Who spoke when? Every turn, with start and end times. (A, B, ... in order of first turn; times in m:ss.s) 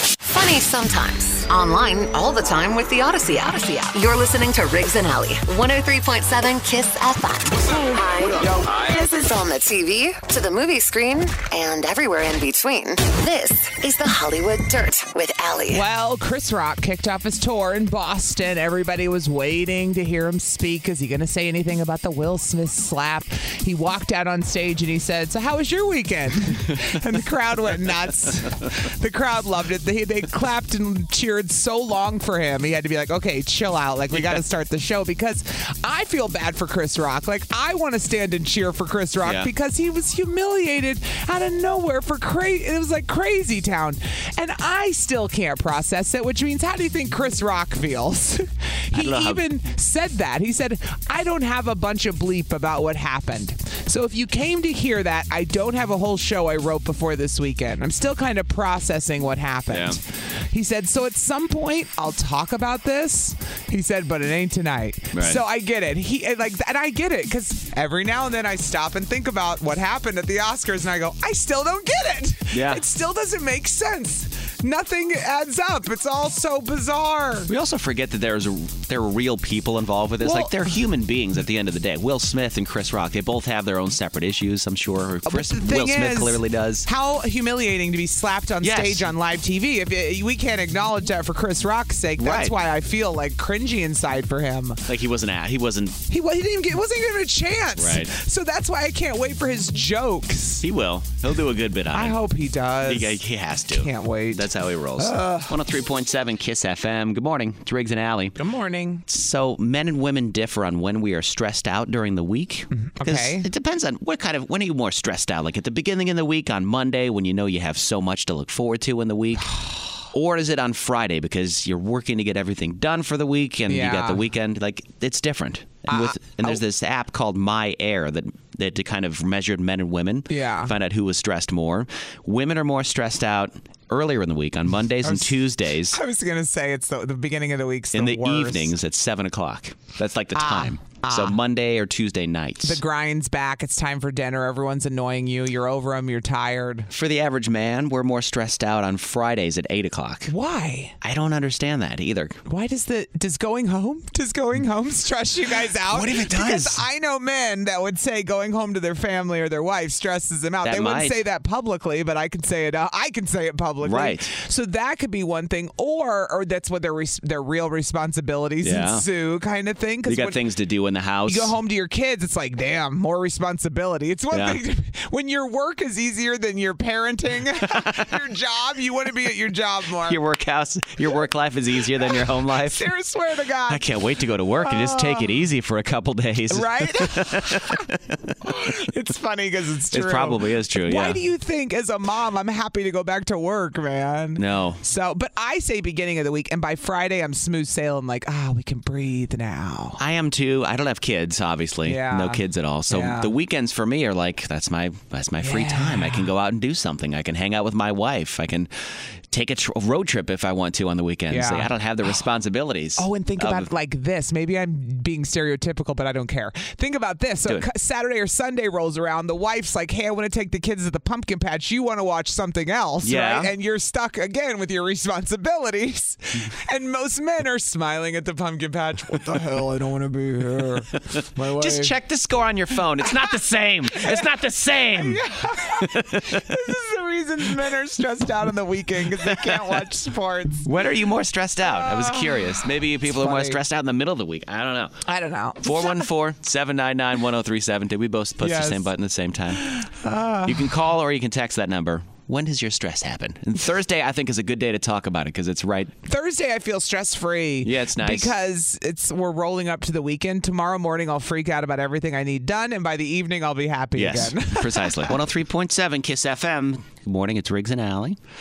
0:00.3-0:15.8 A
0:15.7-1:17.5 B
0:39.2-0:39.5 C
0:48.9-0:49.4 C
0:59.7-1:00.0 C
1:05.1-1:05.4 C
1:12.5-1:12.8 C
1:17.5-1:26.9 C
1:20.2-1:20.7 B
1:25.3-1:34.9 B
1:28.6-1:29.1 C
1:32.2-1:32.6 C
1:34.9-1:36.0 C
1:36.1-1:40.7 B
1:37.8-1:38.2 C
1:40.6-1:42.2 C
1:41.9-1:45.6 B
1:42.8-1:48.4 C
1:48.4-1:49.0 B
1:49.1-1:59.6 C
1:52.8-1:53.5 B
1:59.4-1:59.8 B
2:00.1-2:16.0 C
2:03.7-2:04.2 B
2:05.9-2:06.6 B
2:10.3-2:10.7 B
2:15.0-2:18.7 B
2:17.9-2:22.8 C
2:20.4-2:21.4 B
2:22.6-2:26.9 B
2:26.9-2:30.3 C
2:30.3-2:31.0 B
2:31.0-2:32.4 C
2:32.5-2:50.4 B
2:35.9-2:36.8 C
2:40.6-2:41.2 C
2:43.8-2:44.3 C
2:48.6-2:49.0 C
2:50.1-2:51.5 C
2:51.3-3:00.2 B
2:54.3-2:54.6 C
2:57.6-2:58.2 C
3:00.0-3:02.9 C
3:02.0-3:03.8 B
3:03.7-3:08.4 C
3:04.6-3:05.3 B
3:06.5-3:07.8 B
3:08.4-3:20.0 B
3:09.9-3:11.2 C
3:14.4-3:14.8 C
3:20.0-3:28.7 C
3:21.8-3:23.3 B
3:25.4-3:26.3 B
3:29.3-3:33.7 C
3:31.3-3:31.7 B
3:33.0-3:51.9 B
3:43.0-3:43.5 C
3:50.9-3:56.6 C
3:53.0-3:53.3 B
3:54.0-3:54.3 B
3:54.9-4:00.7 B
3:59.1-3:59.8 C
4:00.6-4:04.9 C
4:01.6-4:03.6 B
4:05.1-4:06.1 B
4:05.6-4:09.8 C
4:08.4-4:08.9 B
4:09.5-4:10.8 B
4:10.4-4:15.9 C
4:16.1-4:25.2 B
4:17.6-4:18.3 C
4:24.0-4:28.2 C